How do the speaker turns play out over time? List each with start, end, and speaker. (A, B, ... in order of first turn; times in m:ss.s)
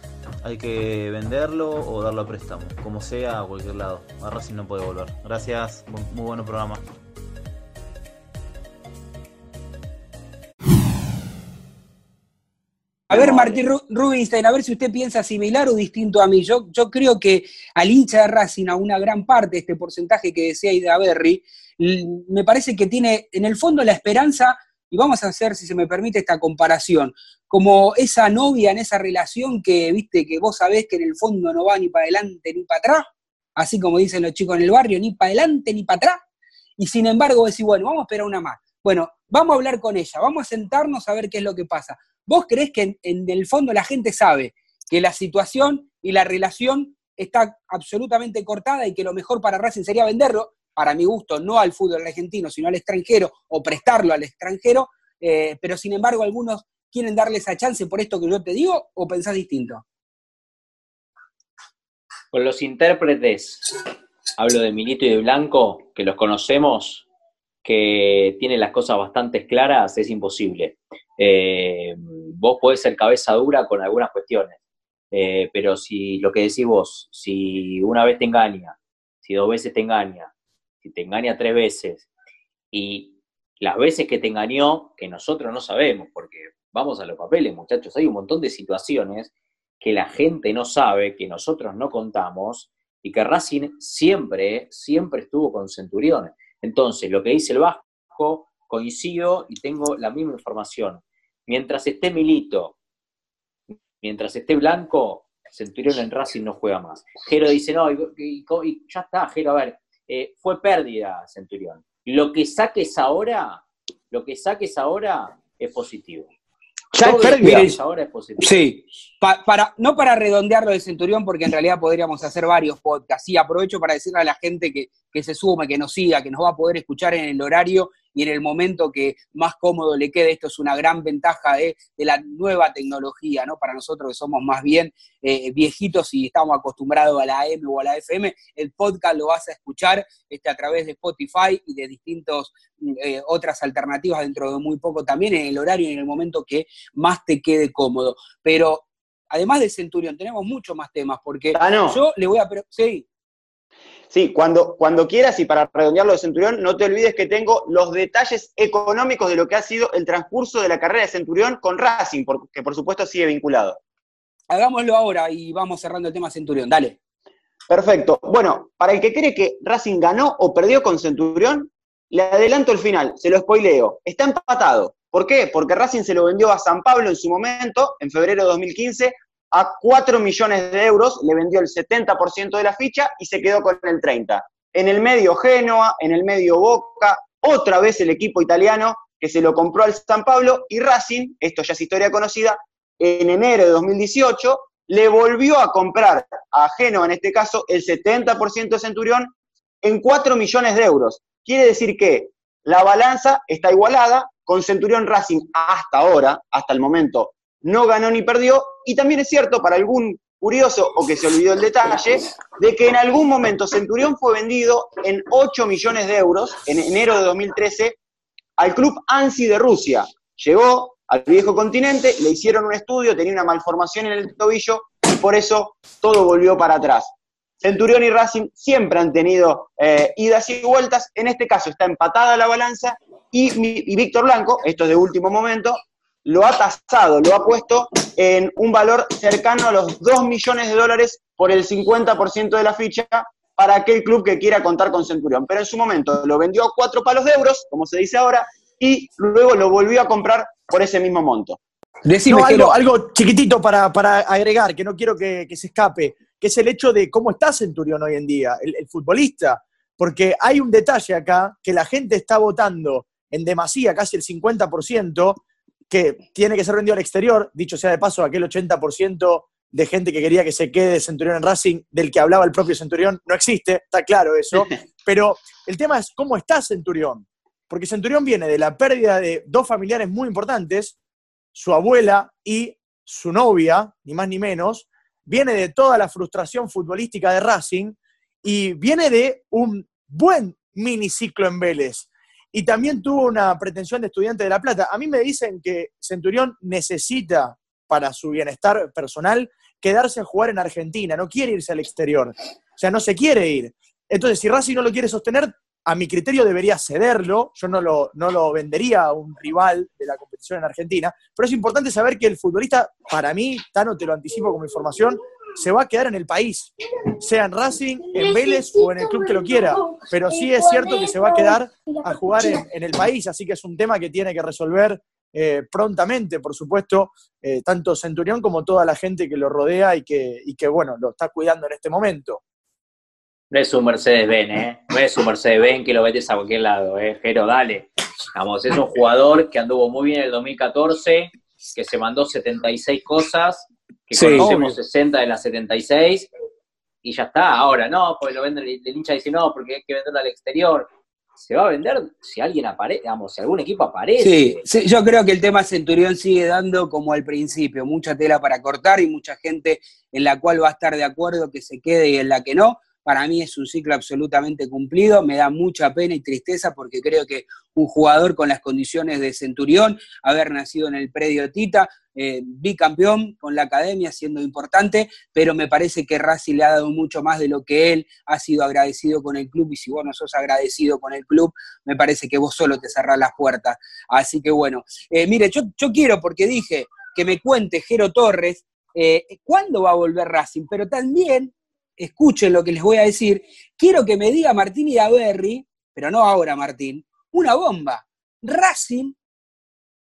0:00.4-0:06.8 A
0:13.1-0:36.2 B
0:36.8-0:59.8 B
1:02.3-1:03.7 C
1:04.4-1:07.1 C
1:07.6-1:14.6 C
1:15.1-1:20.3 C
1:20.8-1:22.1 C
1:22.7-1:42.8 C
1:44.0-1:56.3 C
1:56.9-1:57.7 D
1:57.0-1:58.7 C
1:57.4-1:57.7 B
1:58.4-2:33.1 B
2:31.6-2:32.0 E
2:34.1-2:43.8 E
2:44.5-2:47.0 B
2:47.7-3:19.3 E
3:19.8-3:38.0 E
3:38.6-4:11.6 E
4:12.1-4:12.8 B
4:12.3-4:41.0 D
4:41.6-5:32.4 D
5:33.5-5:46.3 C
5:44.1-5:44.7 B
5:47.0-5:54.6 C
5:54.2-6:39.2 B